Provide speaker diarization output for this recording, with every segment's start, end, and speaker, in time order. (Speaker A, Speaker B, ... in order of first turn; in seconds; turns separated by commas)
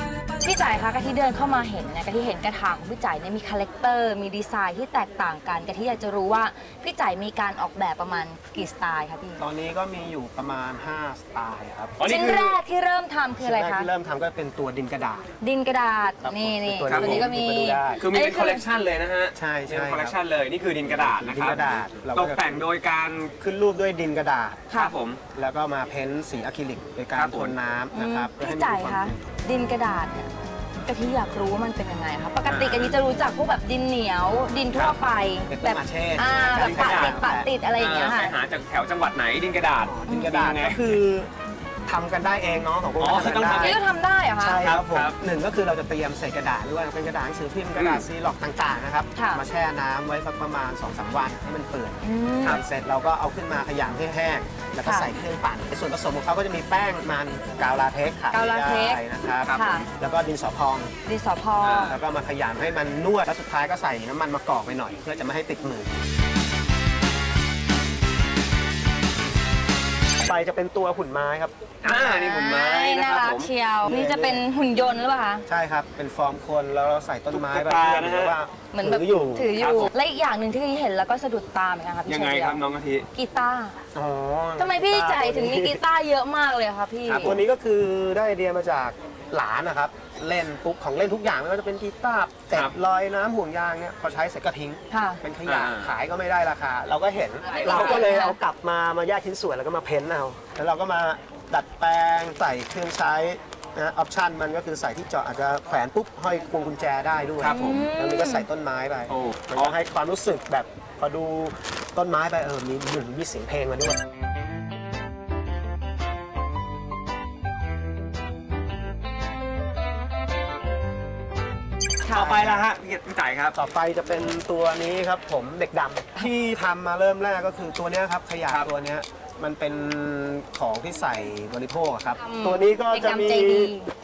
Speaker A: 0.4-9.4, Speaker B: 9.4-12.1, Speaker C: 12.0-12.5, Speaker A: 12.0-13.9, Speaker B: 13.4-15.2, Speaker A: 15.4-18.6, Speaker B: 16.2-18.0, Speaker C: 16.9-17.3, Speaker C: 18.0-23.4, Speaker B: 19.4-20.2, Speaker B: 20.8-22.6, Speaker B: 23.4-24.7, Speaker A: 24.7-24.9, Speaker C: 24.7-25.2, Speaker B: 25.3-29.2, Speaker C: 27.1-27.6, Speaker A: 27.9-30.3, Speaker A: 30.9-38.3, Speaker C: 32.5-33.0, Speaker C: 34.7-35.0, Speaker B: 35.5-37.5, Speaker C: 36.5-41.0, Speaker B: 39.9-41.3, Speaker B: 41.9-43.8, Speaker C: 43.0-43.8, Speaker A: 43.4-44.6, Speaker B: 44.4-60.9, Speaker C: 44.6-45.2, Speaker C: 47.8-48.0, Speaker A: 49.1-49.4, Speaker A: 52.0-52.6, Speaker A: 54.8-55.1, Speaker A: 58.3-59.9, Speaker C: 59.4-59.9, Speaker A: 61.0-62.0, Speaker C: 61.6-62.0, Speaker B: 61.9-65.9, Speaker B: 70.2-71.7, Speaker C: 71.8-73.5, Speaker A: 71.8-75.4, Speaker B: 73.8-74.4, Speaker B: 75.5-79.6, Speaker C: 77.3-78.4, Speaker A: 78.7-82.6, Speaker C: 79.6-79.9, Speaker C: 82.0-83.1, Speaker A: 83.1-83.8, Speaker B: 83.9-85.8, Speaker A: 84.6-87.4, Speaker C: 87.0-87.4, Speaker B: 87.2-114.0, Speaker A: 94.9-95.2, Speaker C: 95.4-96.0, Speaker C: 97.5-98.2, Speaker A: 97.5-98.4, Speaker C: 107.4-107.9, Speaker A: 107.4-108.5, Speaker C: 109.1-109.8, Speaker C: 122.1-123.6, Speaker B: 122.1-122.6, Speaker B: 123.5-133.7, Speaker A: 132.2-133.9